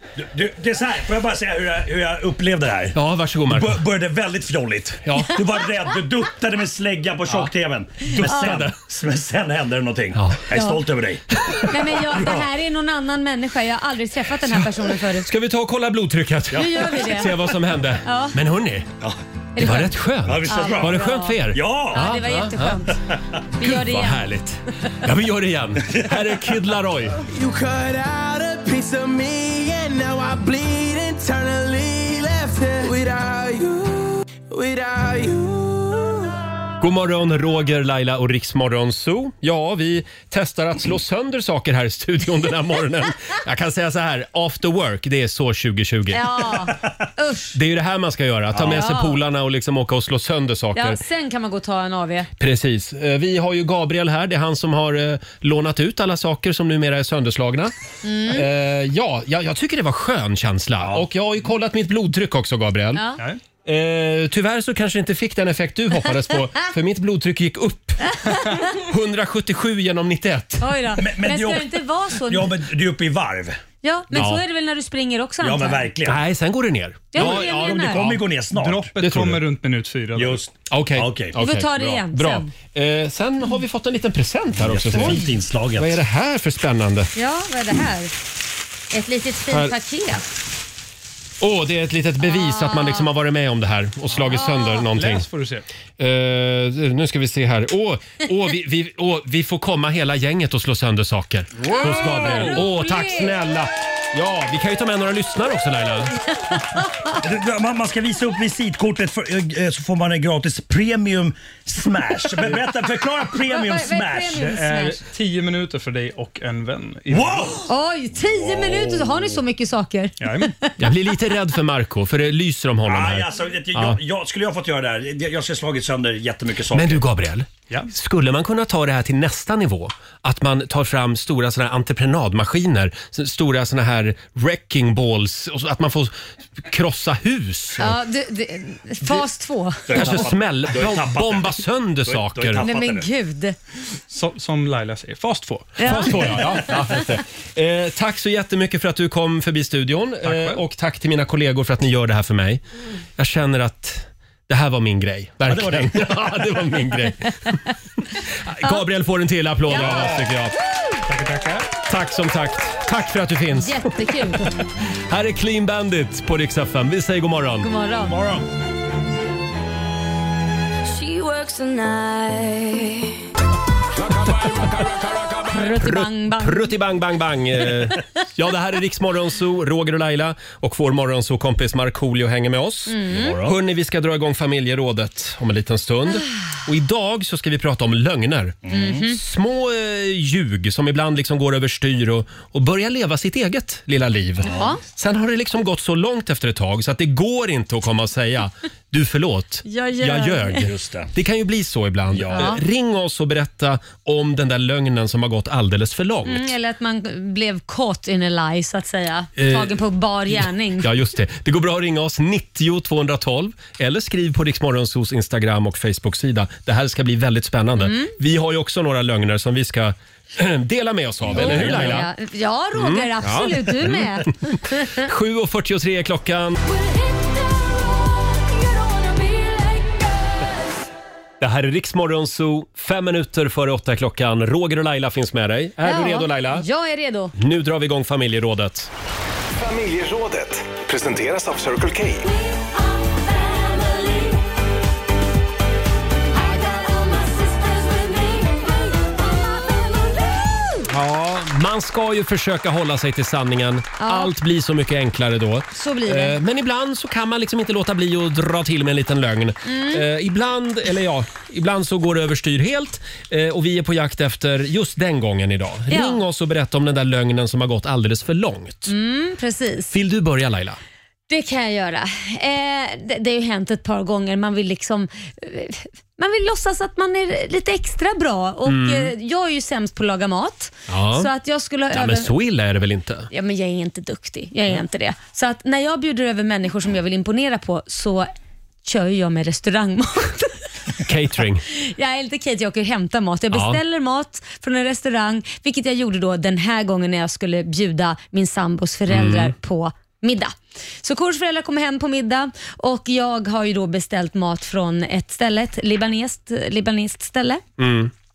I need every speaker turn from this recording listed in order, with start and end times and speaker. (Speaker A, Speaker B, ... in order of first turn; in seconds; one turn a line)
Speaker A: 0.2-3.0
Speaker B: 3.0-3.8
Speaker A: 3.5-11.2
Speaker B: 5.0-5.4
Speaker C: 8.1-8.7
Speaker B: 8.1-8.8
Speaker B: 10.2-10.4
Speaker C: 10.5-10.8
Speaker C: 11.6-15.3
Speaker A: 12.2-12.4
Speaker B: 14.4-18.9
Speaker C: 16.5-17.4
Speaker C: 18.0-18.4
Speaker C: 19.6-23.0
Speaker B: 19.6-22.9
Speaker A: 20.2-21.0
Speaker A: 21.5-22.0
Speaker C: 23.6-24.2
Speaker B: 23.6-27.2
Speaker D: 27.4-33.8
Speaker D: 34.5-35.8
Speaker B: 36.8-46.7
Speaker C: 46.1-47.5
Speaker B: 47.5-51.0
Speaker C: 48.6-49.2
Speaker C: 50.8-52.3
Speaker B: 52.4-57.7
Speaker C: 58.0-58.5
Speaker B: 58.3-63.1
Speaker C: 63.0-63.2
Speaker B: 63.6-70.7
Speaker C: 68.1-68.7
Speaker C: 70.6-72.6
Speaker A: 71.0-73.6
Speaker C: 73.8-75.9
Speaker B: 74.1-74.4
Speaker A: 75.4-76.2
Speaker B: 76.0-78.2
Speaker C: 77.1-78.0
Speaker A: 77.2-78.9
Speaker E: 78.0-80.5
Speaker B: 79.0-79.4
Speaker A: 80.2-81.4
Speaker B: 80.7-87.1
Speaker C: 81.4-82.5
Speaker A: 84.6-86.0
Speaker C: 85.0-85.2
Speaker C: 87.2-88.1
Speaker C: 88.9-90.2
Speaker B: 91.4-95.3
Speaker C: 92.2-93.1
Speaker E: 94.1-95.7
Speaker C: 94.3-94.9
Speaker B: 96.0-106.2
Speaker E: 101.6-102.5
Speaker C: 101.8-103.3
Speaker A: 107.2-114.6
Speaker C: 113.4-115.0
Speaker E: 114.4-117.6
Speaker A: 117.1-117.7
Speaker C: 117.7-120.7
Speaker A: 118.5-119.2
Speaker E: 120.2-120.5
Speaker B: 120.8-124.0
Speaker A: 122.9-127.0
Speaker B: 126.7-138.0
Speaker C: 137.8-140.0
Speaker A: 139.9-143.1
Speaker B: 139.9-142.6
Speaker C: 142.6-143.6
Speaker E: 144.1-146.3
Speaker C: 145.8-146.8
Speaker B: 145.8-152.6
Speaker E: 150.2-150.6
Speaker B: 153.2-157.6
Speaker A: 155.5-156.1
Speaker B: 158.3-160.6
Speaker C: 159.7-160.1
Speaker A: 159.8-160.3
Speaker A: 161.1-161.7
Speaker B: 161.8-167.7
Speaker C: 163.6-164.5
Speaker C: 167.6-168.2
Speaker A: 168.1-168.4
Speaker F: 170.9-173.1
Speaker C: 175.4-176.8
Speaker B: 175.6-206.5
Speaker C: 182.9-183.4
Speaker A: 183.1-183.6
Speaker A: 188.7-189.0
Speaker C: 188.7-189.2
Speaker C: 194.5-194.8
Speaker C: 199.7-200.7
Speaker A: 200.6-201.1
Speaker A: 202.1-202.5
Speaker C: 202.3-202.6
Speaker C: 206.3-210.9
Speaker B: 209.4-222.1
Speaker C: 217.8-218.1
Speaker A: 221.3-221.8
Speaker C: 221.3-225.1
Speaker B: 222.8-226.6
Speaker F: 229.0-229.6
Speaker B: 231.4-236.7
Speaker C: 235.8-237.3
Speaker B: 237.3-238.9
Speaker G: 239.6-242.3
Speaker F: 243.4-244.3
Speaker F: 246.6-248.7
Speaker B: 250.9-268.9
Speaker C: 254.0-254.3
Speaker C: 255.7-256.4
Speaker C: 259.7-260.1
Speaker C: 265.9-266.2
Speaker C: 268.9-269.9
Speaker B: 269.9-270.8
Speaker C: 271.3-282.3
Speaker B: 278.7-279.1
Speaker B: 280.9-281.3
Speaker B: 281.9-283.3
Speaker C: 283.3-288.3
Speaker C: 288.8-290.5
Speaker B: 291.1-291.6
Speaker C: 291.7-307.6
Speaker B: 293.5-293.8
Speaker B: 299.1-299.5
Speaker B: 307.8-308.1